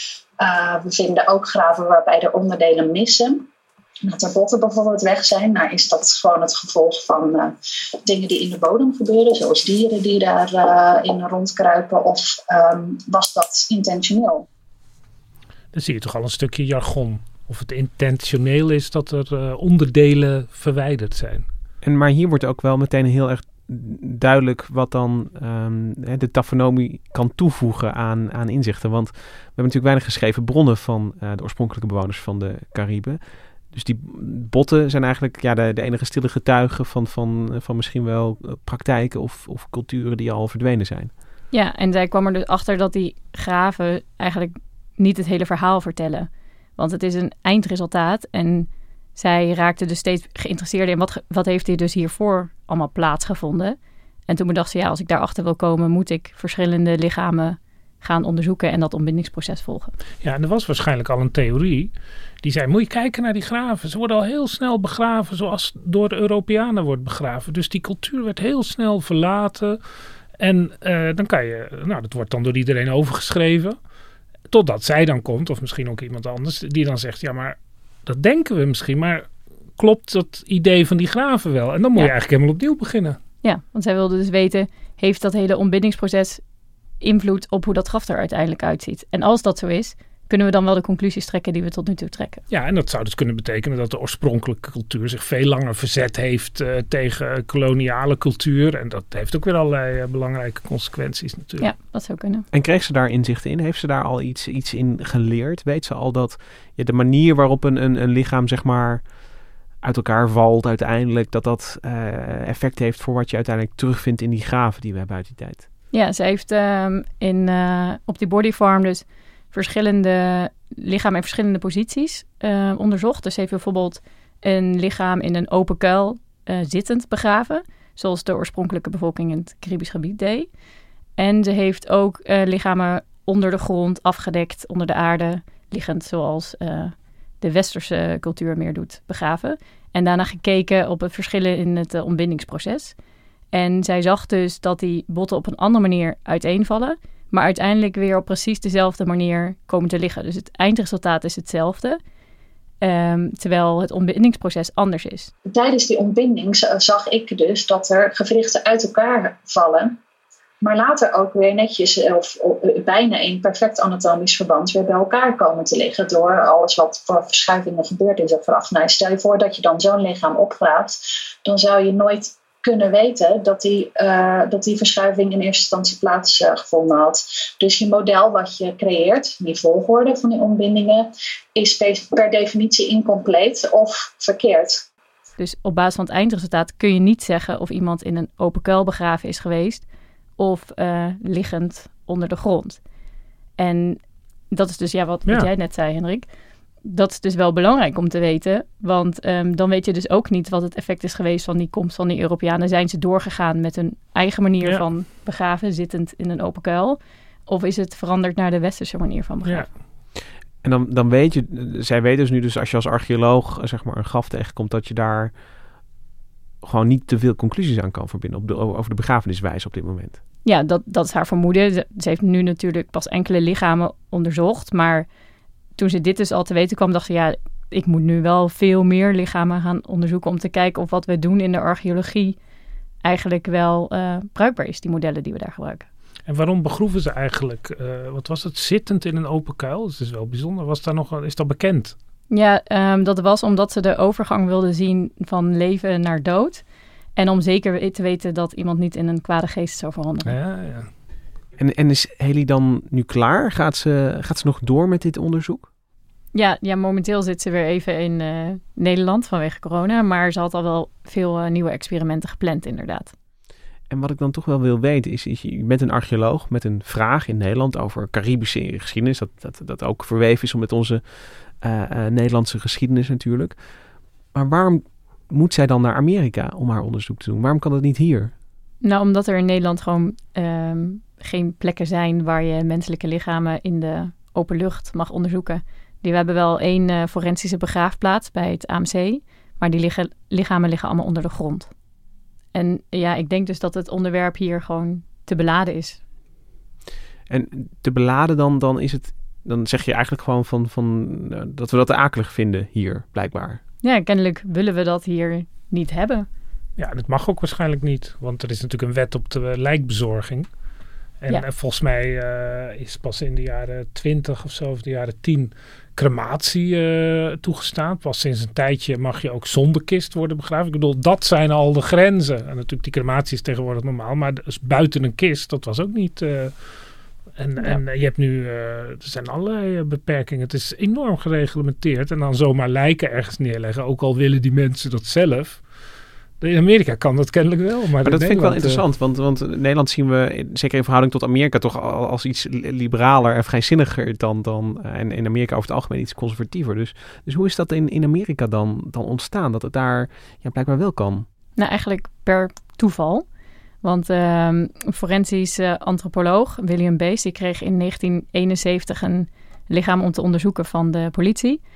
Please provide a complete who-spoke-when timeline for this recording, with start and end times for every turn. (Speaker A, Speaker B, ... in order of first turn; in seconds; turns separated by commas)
Speaker A: 0.4-3.5, Speaker A: 4.0-14.4, Speaker B: 15.7-21.4, Speaker C: 21.8-33.2, Speaker C: 33.7-41.1, Speaker D: 41.5-53.8, Speaker D: 54.3-59.9, Speaker B: 60.2-69.8, Speaker B: 70.4-73.8, Speaker B: 74.5-83.2, Speaker D: 83.4-86.4, Speaker D: 87.0-92.4, Speaker B: 92.5-101.7, Speaker D: 101.6-102.4, Speaker C: 102.5-109.0, Speaker C: 109.8-115.6, Speaker D: 115.9-130.5, Speaker D: 131.2-142.9, Speaker D: 143.5-152.0, Speaker D: 152.8-155.3, Speaker A: 155.5-160.0, Speaker A: 160.6-184.8, Speaker D: 185.4-189.8, Speaker D: 190.4-192.8, Speaker D: 193.6-196.2, Speaker D: 196.8-209.7, Speaker B: 209.4-209.7, Speaker C: 210.6-215.3, Speaker C: 216.6-220.2, Speaker D: 220.4-225.1, Speaker D: 225.8-232.4, Speaker D: 233.0-235.8, Speaker B: 236.3-241.9, Speaker D: 242.3-246.6, Speaker D: 247.2-250.3, Speaker B: 250.2-250.9, Speaker C: 251.6-255.7, Speaker D: 256.3-263.1, Speaker C: 263.9-273.6, Speaker C: 274.3-278.3, Speaker D: 278.8-291.7, Speaker D: 292.5-296.0, Speaker C: 297.3-303.6, Speaker D: 303.8-306.3, Speaker B: 306.8-310.5, Speaker B: 311.2-335.6, Speaker B: 336.4-338.8, Speaker C: 338.0-351.2, Speaker D: 351.6-353.2, Speaker D: 353.8-361.6